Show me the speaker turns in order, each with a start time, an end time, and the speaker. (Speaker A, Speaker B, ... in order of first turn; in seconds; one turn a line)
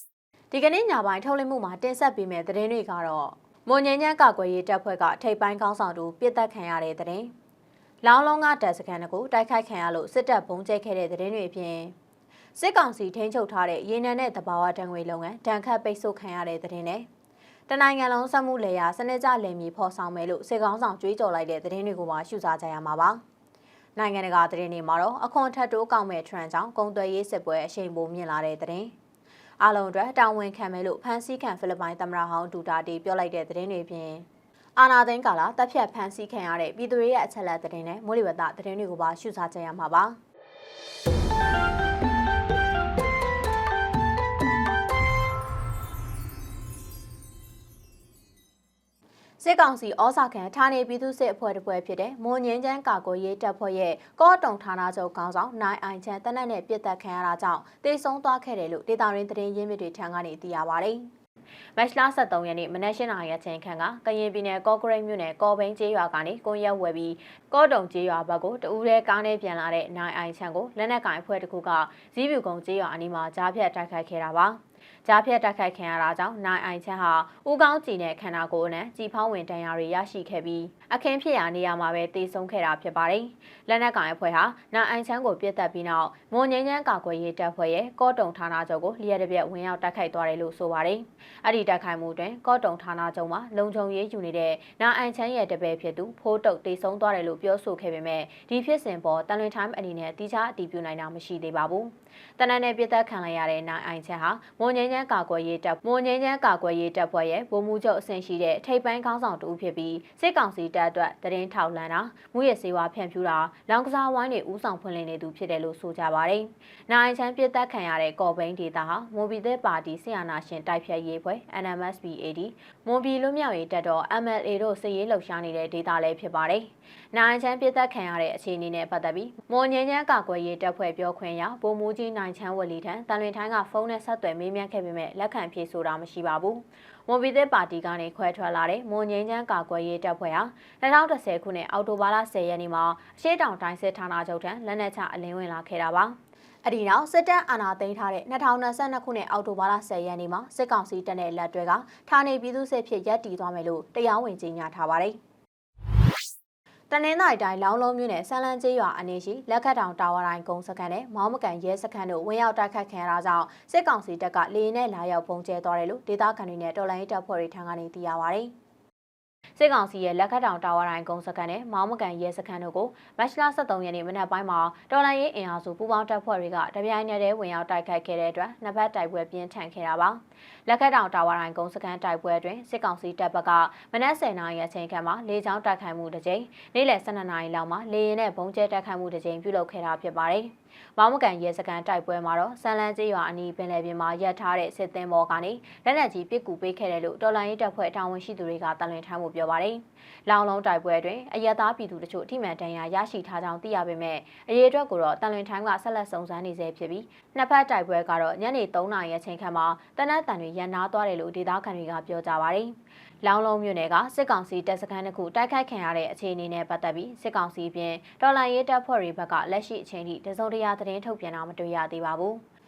Speaker A: 0.5-7.3
Speaker A: 8.0-11.9
Speaker A: 12.6-17.1
Speaker A: 17.7-23.2
Speaker A: 23.9-28.9
Speaker A: 29.6-34.2
Speaker A: 34.8-40.1
Speaker A: 49.4-61.0
Speaker A: 61.8-155.2
Speaker A: 156.9-168.5
Speaker A: 169.6-222.4